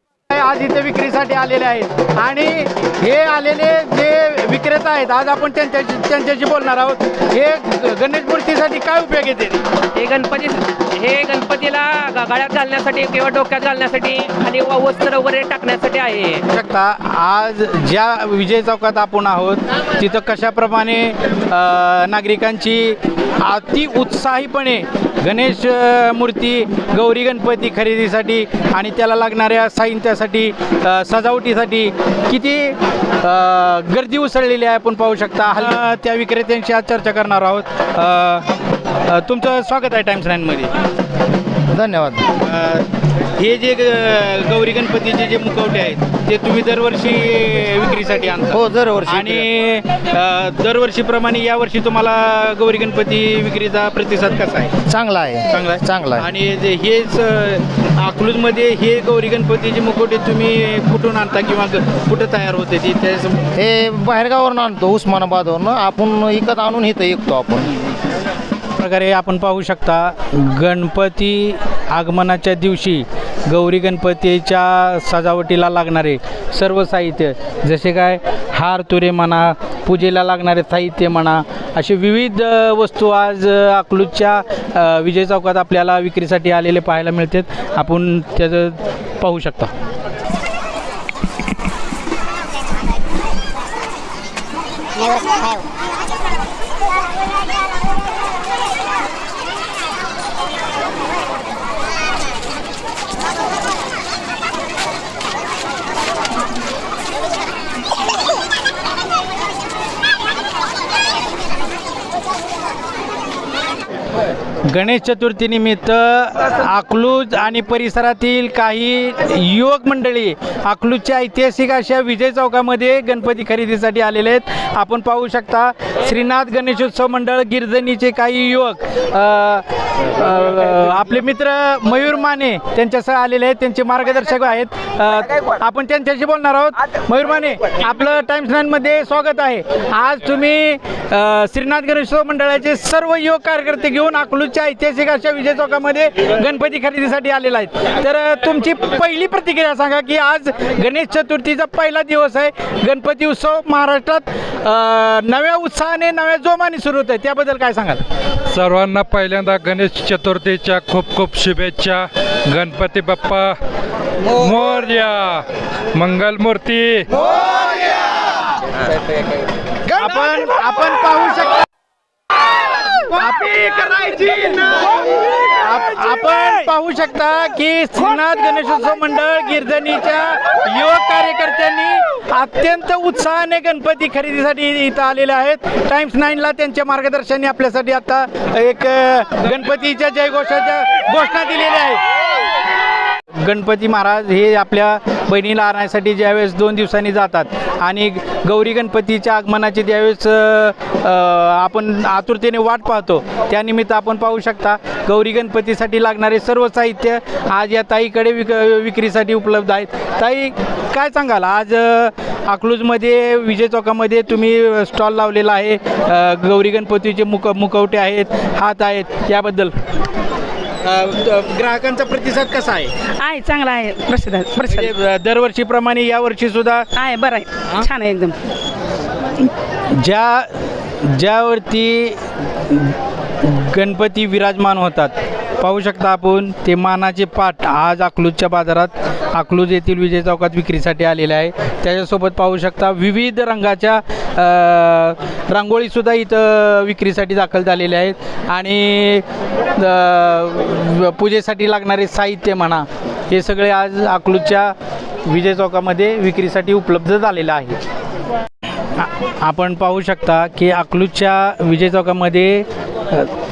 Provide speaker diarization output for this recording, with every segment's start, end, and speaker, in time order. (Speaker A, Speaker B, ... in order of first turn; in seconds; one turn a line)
Speaker A: 0.3-9.6
Speaker B: 9.9-16.4
Speaker A: 16.5-38.4
Speaker A: 39.1-40.7
Speaker C: 41.7-42.3
Speaker A: 42.4-42.8
Speaker A: 43.4-54.8
Speaker C: 48.5-49.3
Speaker C: 54.9-56.2
Speaker A: 55.5-63.4
Speaker C: 63.6-67.7
Speaker A: 68.8-89.7
Speaker A: 114.7-158.0
Speaker D: 158.5-163.6
Speaker D: 164.4-165.4
Speaker D: 165.9-167.1
Speaker A: 169.9-171.6
Speaker A: 173.0-174.8
Speaker A: 175.3-192.1
Speaker A: 193.4-219.8
Speaker A: 220.8-222.9
Speaker E: 223.2-224.9
Speaker A: 224.7-226.9
Speaker E: 226.9-228.3
Speaker A: 229.4-254.7
Speaker A: 255.2-257.8
Speaker A: 259.0-263.3